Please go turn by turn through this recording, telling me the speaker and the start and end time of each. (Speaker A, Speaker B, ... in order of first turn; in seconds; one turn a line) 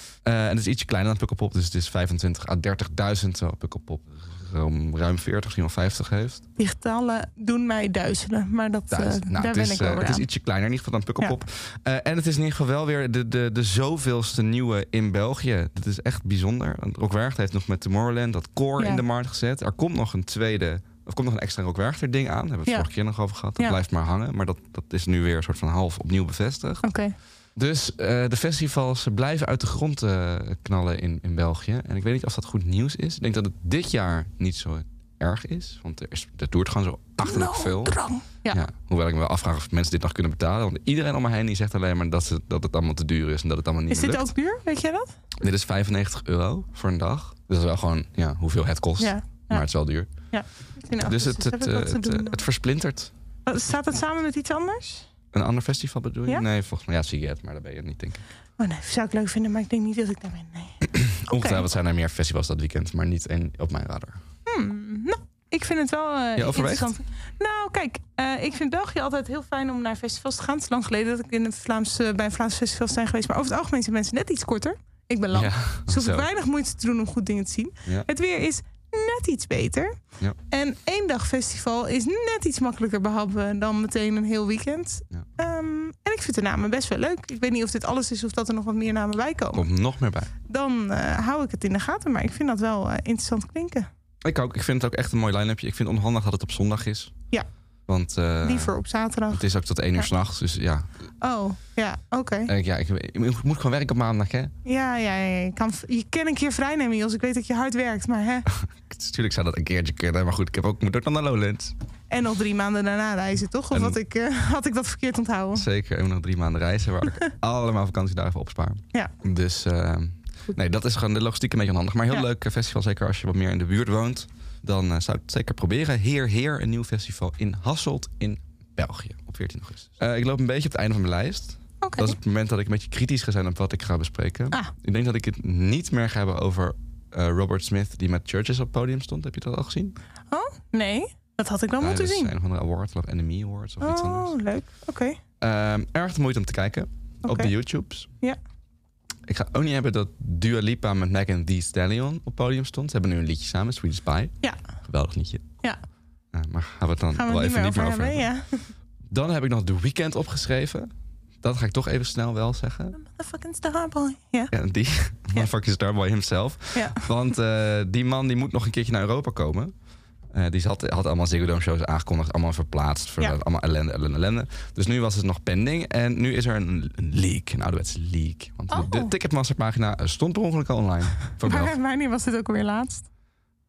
Speaker A: 0.2-6.5
Speaker B: 6.6-10.3
Speaker A: 8.9-26.8
Speaker B: 26.8-27.1
Speaker A: 27.6-44.3
Speaker B: 37.2-38.6
Speaker B: 43.9-45.1
Speaker A: 45.4-50.1
Speaker B: 49.0-49.6
Speaker B: 50.3-52.4
Speaker A: 51.0-53.1
Speaker B: 53.5-55.1
Speaker A: 55.3-58.2
Speaker B: 58.6-61.6
Speaker A: 60.9-64.2
Speaker B: 64.5-80.0
Speaker A: 66.4-66.9
Speaker A: 75.3-76.3
Speaker B: 80.5-89.7
Speaker A: 89.5-90.3
Speaker B: 90.5-93.9
Speaker A: 94.2-97.1
Speaker A: 97.9-98.8
Speaker B: 98.4-100.1
Speaker A: 99.3-100.9
Speaker B: 101.2-102.5
Speaker A: 102.5-104.5
Speaker B: 104.7-108.5
Speaker A: 108.5-111.8
Speaker B: 112.1-115.7
Speaker A: 113.7-114.0
Speaker A: 115.5-140.0
Speaker B: 131.8-132.2
Speaker B: 140.3-142.3
Speaker A: 141.8-144.3
Speaker B: 143.8-145.2
Speaker A: 145.4-148.1
Speaker B: 147.2-147.5
Speaker A: 149.3-155.5
Speaker A: 156.3-158.3
Speaker B: 157.1-158.7
Speaker A: 159.1-160.9
Speaker A: 161.4-163.0
Speaker B: 162.9-164.5
Speaker A: 164.5-169.7
Speaker B: 166.8-167.1
Speaker A: 170.3-181.8
Speaker B: 178.7-179.1
Speaker B: 181.4-183.1